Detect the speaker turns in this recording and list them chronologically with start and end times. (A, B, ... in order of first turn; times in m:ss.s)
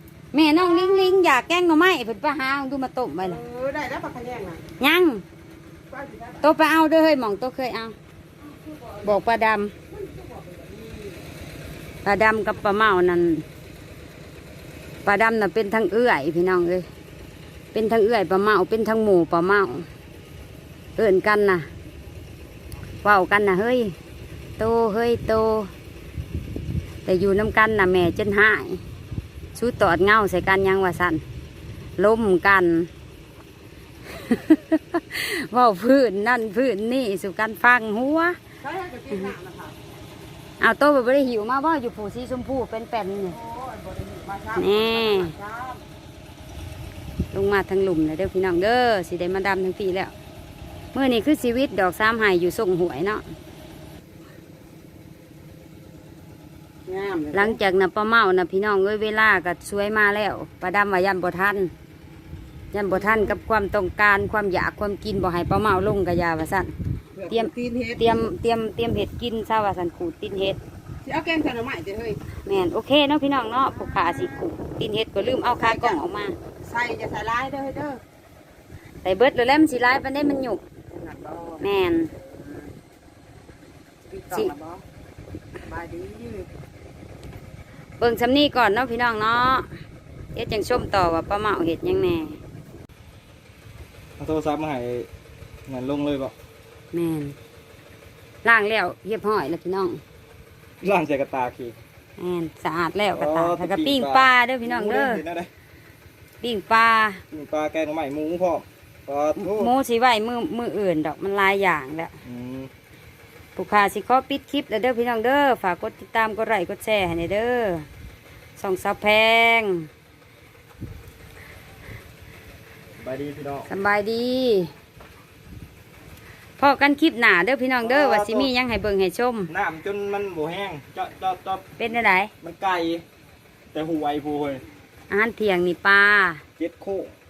0:00.3-0:03.4 A
0:03.4-0:04.6 B
0:04.8-0:05.2 A
0:05.9-0:06.4 B
0:06.4-0:08.0 A
0:09.0-0:09.7 A
0:09.9-0:11.2 B
0:12.0-0:13.5 A
0:15.0-0:16.9 A
0:17.7-0:19.9 A
0:21.0-0:21.7 A
0:23.0-0:24.0 A
0:24.6-0:25.7 A
0:27.0-0:28.8 A
0:29.6-0:31.2 A
0:32.0-0:32.9 A
0:34.1-0:38.4 A
0:38.6-0:39.8 B
0:40.6-0:43.4 A
0:43.4-0:45.8 B
0:44.5-0:45.4 A
0:47.3-0:50.1 A
0:50.9-0:53.2 A
0:56.9-0:57.5 B
0:57.3-1:01.7 A
1:02.7-1:06.7 A
1:07.2-1:08.0 B
1:07.3-1:10.6 A
1:11.0-1:12.2 B
1:12.5-1:16.4 A
1:15.6-1:16.0 B
1:16.6-1:18.0 B
1:19.0-1:20.6 A
1:21.0-1:21.6 B
1:21.6-1:22.1 A
1:24.1-1:24.8 B
1:25.6-1:26.5 B
1:28.0-1:29.7 A
1:30.4-1:32.4 A
1:34.2-1:35.1 C
1:35.7-1:36.3 C
1:36.9-1:37.4 A
1:38.4-1:40.0 A
1:40.8-1:41.8 C
1:42.2-1:45.2 A
1:43.2-1:45.5 C
1:46.4-1:47.2 A
1:47.3-1:49.7 C
1:49.4-1:52.2 A
1:52.2-1:52.7 C
1:53.6-1:57.9 A
1:58.6-1:59.9 A
2:03.0-2:03.7 C
2:03.7-2:04.7 A
2:06.6-2:09.5 A
2:07.8-2:08.5 C
2:09.5-2:11.6 C
2:11.8-2:12.3 A
2:12.4-2:13.0 C
2:13.7-2:14.6 C
2:15.1-2:16.4 A
2:16.6-2:17.1 C